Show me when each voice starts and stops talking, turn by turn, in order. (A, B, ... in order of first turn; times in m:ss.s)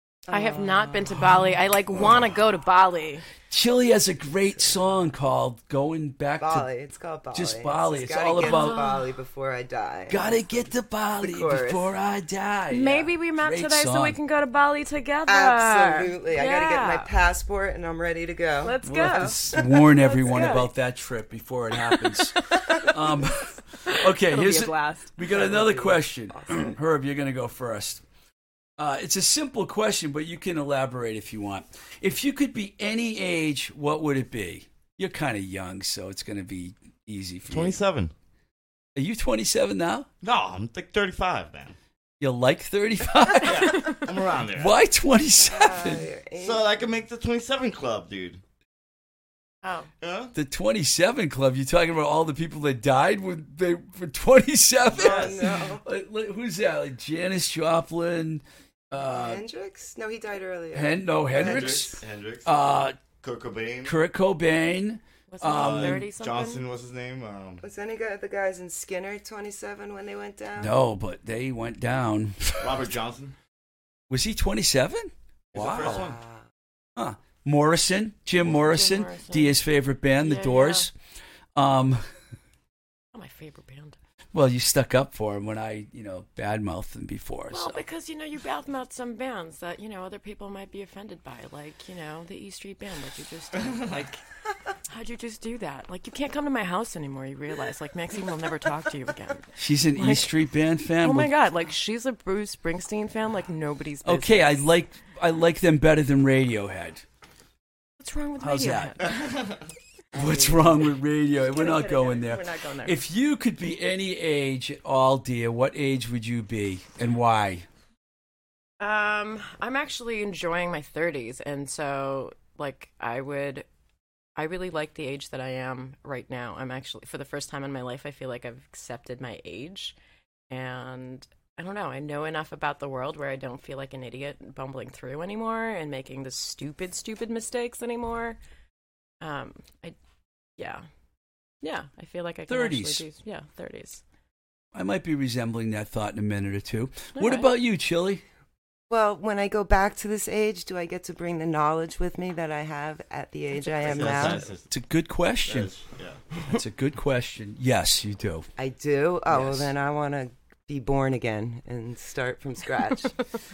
0:00.3-0:01.4 A
0:00.3-0:03.2 B
0:03.5-0:06.7 C
0:06.4-0:10.6 A
0:07.3-0:08.8 C
0:08.4-0:09.1 B
0:10.1-0:14.2 C
0:11.2-0:11.9 A
0:12.7-0:17.1 B
0:15.3-0:20.6 A
0:18.6-0:20.6 B
0:18.8-0:28.0 C
0:23.8-0:25.2 B
0:25.3-0:26.7 A
0:28.8-0:37.8 C
0:37.5-0:38.1 D
0:38.9-0:40.1 C
0:40.2-0:41.8 D
0:42.2-0:43.9 C
0:43.4-0:44.7 D
0:44.5-0:46.1 C
0:45.4-0:46.7 A
0:46.4-0:48.4 D
0:49.6-0:49.9 B
0:50.0-0:50.3 D
0:50.3-0:59.4 C
0:54.9-0:55.3 D
0:54.9-0:55.8 A
0:59.0-1:02.0 A
1:00.7-1:03.0 C
1:01.3-1:02.5 D
1:03.2-1:03.9 D
1:03.8-1:06.1 C
1:05.3-1:06.6 B
1:05.5-1:07.6 D
1:07.6-1:10.7 A
1:10.6-1:12.9 C
1:12.6-1:13.3 D
1:14.1-1:16.1 C
1:15.5-1:16.2 D
1:15.7-1:16.4 A
1:17.0-1:20.9 C
1:18.4-1:19.6 B
1:20.2-1:20.9 B
1:21.5-1:22.0 C
1:23.1-1:24.0 B
1:24.3-1:27.8 C
1:27.5-1:34.2 B
1:34.9-1:40.3 B
1:39.6-1:41.3 C
1:41.0-1:44.6 B
1:44.0-1:47.0 C
1:48.0-1:49.2 B
1:48.4-1:49.1 C
1:49.2-1:49.5 D
1:50.1-1:50.9 A
1:50.1-1:57.6 C
1:51.4-1:53.0 B
1:58.8-2:03.6 B
2:04.4-2:10.0 B
2:10.5-2:18.4 B
2:19.2-2:20.0 B
2:20.6-2:20.8 B
2:21.6-2:24.0 B
2:22.5-2:23.0 C
2:24.7-2:28.2 C
2:27.1-2:27.5 B
2:28.9-2:34.4 A
2:33.8-2:34.7 D
2:34.7-2:35.7 C
2:35.4-2:36.2 D
2:36.5-2:38.5 C
2:38.6-2:43.3 A